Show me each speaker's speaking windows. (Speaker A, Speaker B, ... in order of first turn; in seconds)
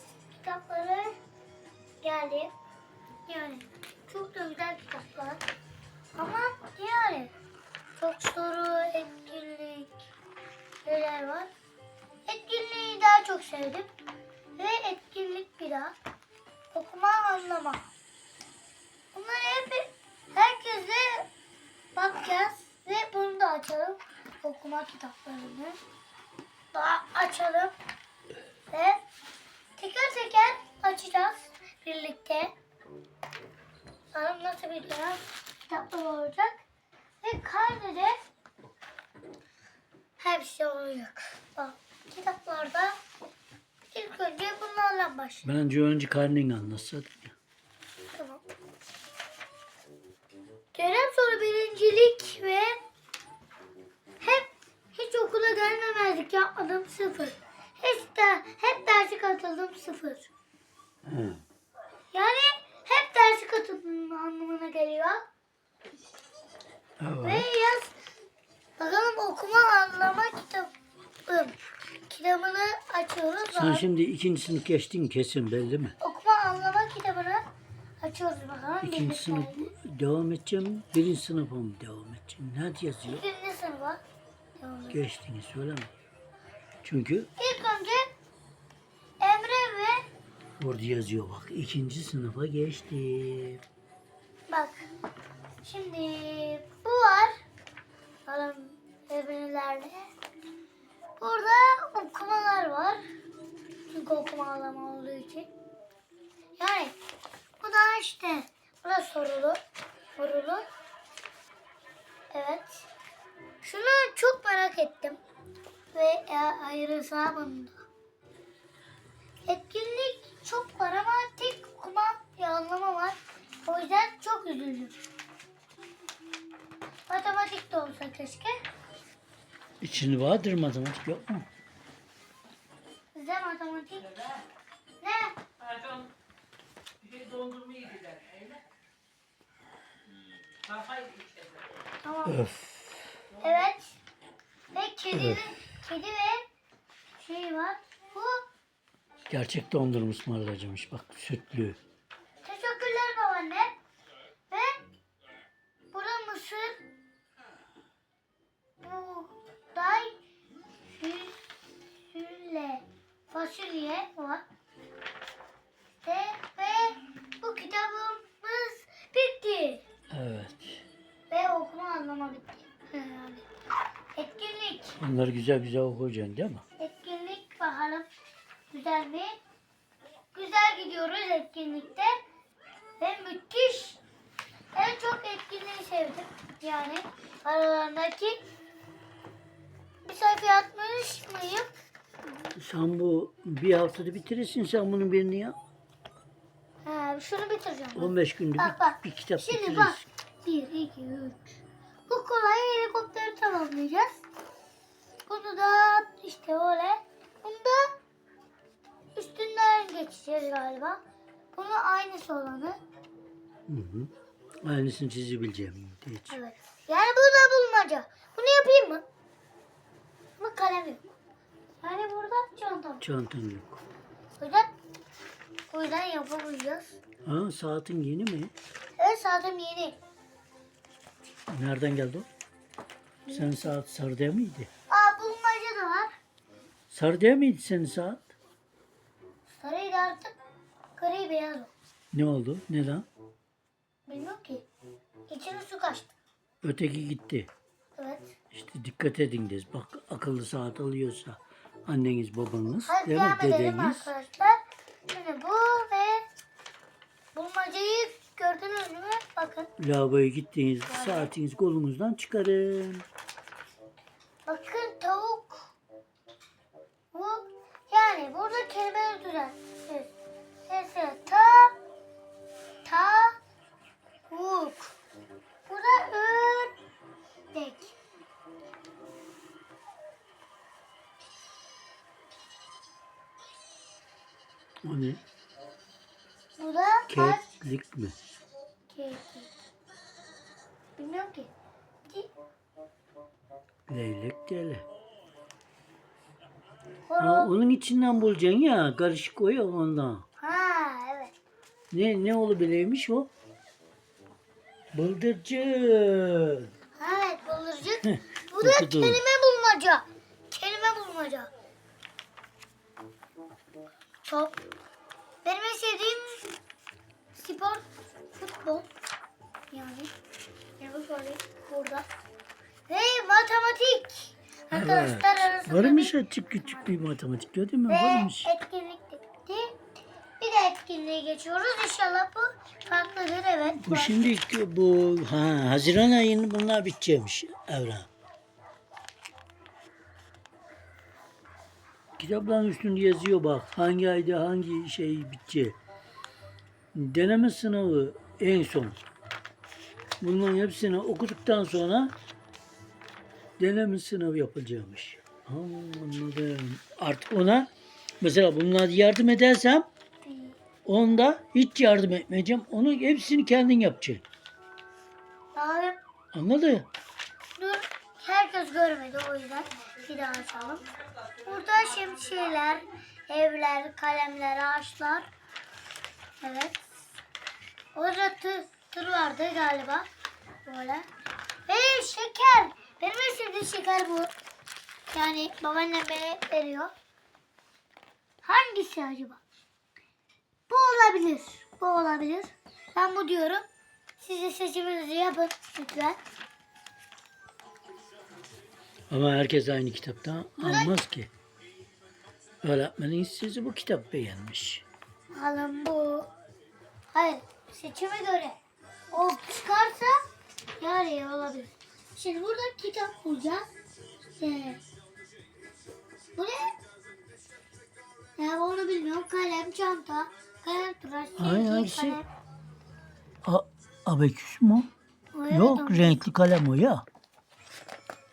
Speaker A: 0.3-1.2, 2.0-2.5, 3.3-5.5, 6.2-7.3, 8.0-10.0, 10.8-11.5, 12.3-13.9, 14.6-15.9, 16.7-17.9, 19.1-21.3, 21.9-25.8, 26.7-27.7, 28.7-29.0, 29.8-32.5, 34.1-36.6, 37.2-38.2, 40.2-43.0, 43.9-45.5, 48.1-48.4, 50.7-52.8, 54.2-60.3, 62.1-65.2, 67.2-68.0, 68.8-70.7, 71.3-73.8, 76.0-77.4, 78.0-79.7, 83.1-84.0, 84.6-85.0, 87.4-88.1, 89.2-90.1, 94.5-94.9, 95.6-97.3, 98.3-100.1, 101.2-103.0, 103.9-105.5, 106.6-107.0, 107.6-109.6, 110.2-110.6, 112.3-112.9, 113.6-115.2, 115.9-117.9, 119.5-125.0, 127.1-128.6, 133.1-134.4, 135.0-135.4, 142.0-142.4, 143.4-144.0, 144.7-146.4, 147.2-148.4, 152.4-153.8, 154.5-154.8, 155.9-156.8, 158.8-160.2, 160.9-164.4, 166.0-169.8, 171.3-173.4, 174.2-175.0, 176.8-178.1, 178.7-179.4, 180.3-182.2, 183.0-184.0, 184.8-188.4, 190.1-191.7, 196.8-204.2, 205.3-207.9, 209.2-211.0, 211.5-212.8, 216.3-219.1, 220.4-221.0, 221.8-223.0, 224.4-224.7, 225.7-227.0, 229.0-230.0, 233.2-233.7, 234.9-236.1, 239.5-240.3, 241.0-241.7, 244.1-244.7, 245.3-246.1, 248.0-248.3, 252.9-256.3, 257.3-259.7, 260.9-261.3, 264.5-265.7, 267.1-270.1, 270.7-271.8, 272.9-273.4, 274.3-274.9, 275.7-276.7, 277.5-278.0, 286.6-287.5, 288.9-289.5, 291.0-291.5, 297.1-297.5, 300.4-301.3, 307.0-311.5, 314.2-314.6, 315.4-316.5, 317.4-318.9, 319.7-320.1, 320.8-322.1, 322.9-326.9, 327.9-329.7, 330.4-334.3, 360.2-360.6, 365.5-366.0, 367.6-370.9, 371.4-375.3, 376.4-376.8, 377.9-380.1, 380.6-381.1, 381.7-384.3, 385.1-386.9, 388.4-389.4, 390.7-393.6, 394.2-396.2, 400.6-400.9, 405.3-406.3, 407.1-408.6, 409.1-410.2, 410.8-413.6, 414.4-414.9, 416.4-416.8, 418.4-422.3, 425.3-426.2
Speaker B: 45.5-47.4, 61.1-61.4, 67.0-67.5, 73.5-76.0, 78.8-83.2, 84.9-85.9, 86.8-87.3, 90.6-93.6, 129.8-131.5, 142.3-143.2, 145.1-145.5, 149.3-151.8, 170.1-170.8, 175.0-176.6, 192.6-195.6, 197.9-200.1, 213.7-214.1, 214.6-216.4, 223.0-223.8, 227.2-228.5, 231.5-232.3, 233.3-234.7, 236.9-238.3, 242.1-243.1, 246.6-247.5, 248.5-254.1, 259.8-263.1, 284.8-285.2, 287.1-288.1, 293.9-294.9, 297.2-300.2, 301.9-303.3, 304.9-306.7, 308.0-309.2, 324.7-328.5, 333.8-338.1, 342.2-345.8, 346.9-349.0, 350.2-352.1, 353.6-357.7, 358.2-359.9, 360.9-364.2, 366.3-366.9, 399.1-401.3, 402.6-404.9, 421.4-422.2, 423.4-424.9, 425.5-427.1
Speaker C: 137.1-138.5, 140.7-141.5